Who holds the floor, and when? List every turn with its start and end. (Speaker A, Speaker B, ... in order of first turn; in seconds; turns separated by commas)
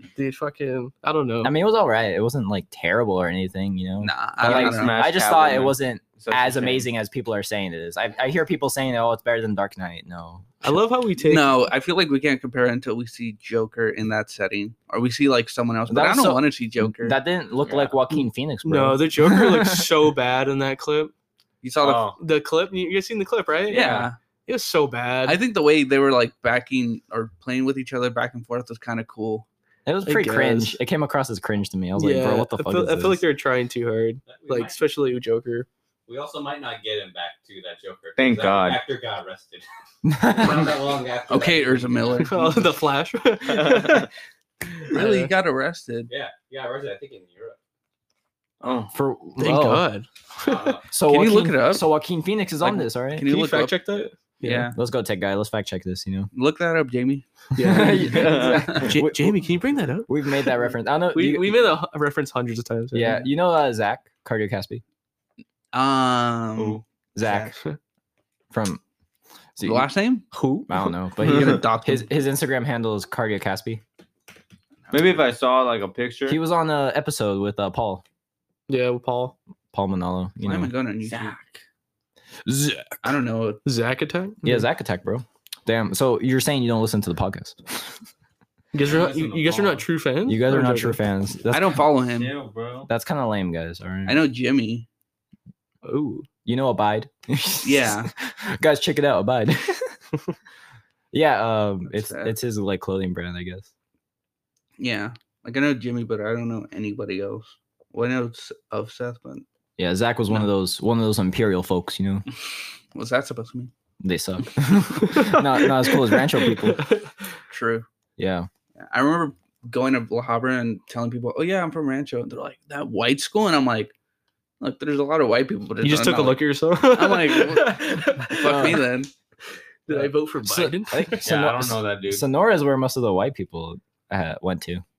Speaker A: 0.1-1.6, Speaker B: 1.4-10.8, Speaker C: 4.0-4.9, Speaker D: 4.4-6.9, Speaker A: 10.6-11.5, Speaker C: 11.2-17.2, Speaker B: 15.9-19.9, Speaker D: 17.6-17.9, Speaker A: 18.6-21.1, Speaker C: 21.6-22.1, Speaker D: 21.8-22.1, Speaker A: 22.2-25.4, Speaker C: 23.7-24.1, Speaker C: 25.2-29.4, Speaker B: 29.9-33.2, Speaker A: 30.1-30.8, Speaker A: 32.0-35.7, Speaker E: 34.3-34.8, Speaker E: 36.1-39.6, Speaker D: 38.2-38.8, Speaker B: 40.0-40.6, Speaker E: 40.2-42.4, Speaker C: 41.3-42.7, Speaker A: 42.2-44.1, Speaker D: 43.5-44.0, Speaker A: 44.8-45.3, Speaker C: 44.9-46.1, Speaker E: 46.1-47.6, Speaker D: 48.6-48.9, Speaker B: 48.9-49.9, Speaker A: 49.4-50.8, Speaker E: 50.4-50.9, Speaker B: 50.9-53.3, Speaker C: 51.0-51.8, Speaker C: 52.6-53.8, Speaker A: 53.2-54.7, Speaker C: 54.4-54.8, Speaker B: 54.7-56.3, Speaker C: 56.3-57.2, Speaker A: 57.5-60.5, Speaker B: 57.6-59.4, Speaker D: 58.0-58.9, Speaker C: 58.4-58.9, Speaker B: 60.0-61.7, Speaker A: 61.1-63.2, Speaker B: 62.9-64.8, Speaker C: 65.7-67.5, Speaker D: 66.6-66.8, Speaker B: 67.2-67.6, Speaker B: 68.5-68.8, Speaker B: 69.5-69.9, Speaker C: 69.6-70.3, Speaker A: 70.3-70.7, Speaker B: 70.7-73.8, Speaker C: 71.2-72.1, Speaker C: 74.9-75.2, Speaker D: 74.9-76.4, Speaker B: 76.3-78.0, Speaker A: 78.7-79.4, Speaker B: 79.7-80.7, Speaker C: 80.4-81.4, Speaker D: 81.0-81.6, Speaker C: 83.0-83.6, Speaker A: 83.6-84.7, Speaker B: 84.4-87.6, Speaker A: 88.7-91.0, Speaker D: 88.8-89.8, Speaker B: 90.2-91.9, Speaker C: 91.5-92.3, Speaker D: 92.2-92.9, Speaker B: 92.9-94.2, Speaker C: 94.0-94.9, Speaker A: 95.8-96.3, Speaker B: 96.5-100.0, Speaker C: 97.6-98.1, Speaker B: 101.1-103.7, Speaker C: 101.9-102.3, Speaker C: 104.8-109.4, Speaker B: 109.8-112.2, Speaker C: 112.9-113.7, Speaker B: 114.0-116.8, Speaker A: 115.0-117.3, Speaker C: 117.5-117.9, Speaker B: 118.2-118.5, Speaker C: 118.8-123.9, Speaker C: 124.6-129.1, Speaker A: 125.8-128.8, Speaker B: 128.4-128.8, Speaker A: 129.9-131.2, Speaker B: 129.9-134.8, Speaker D: 131.2-132.2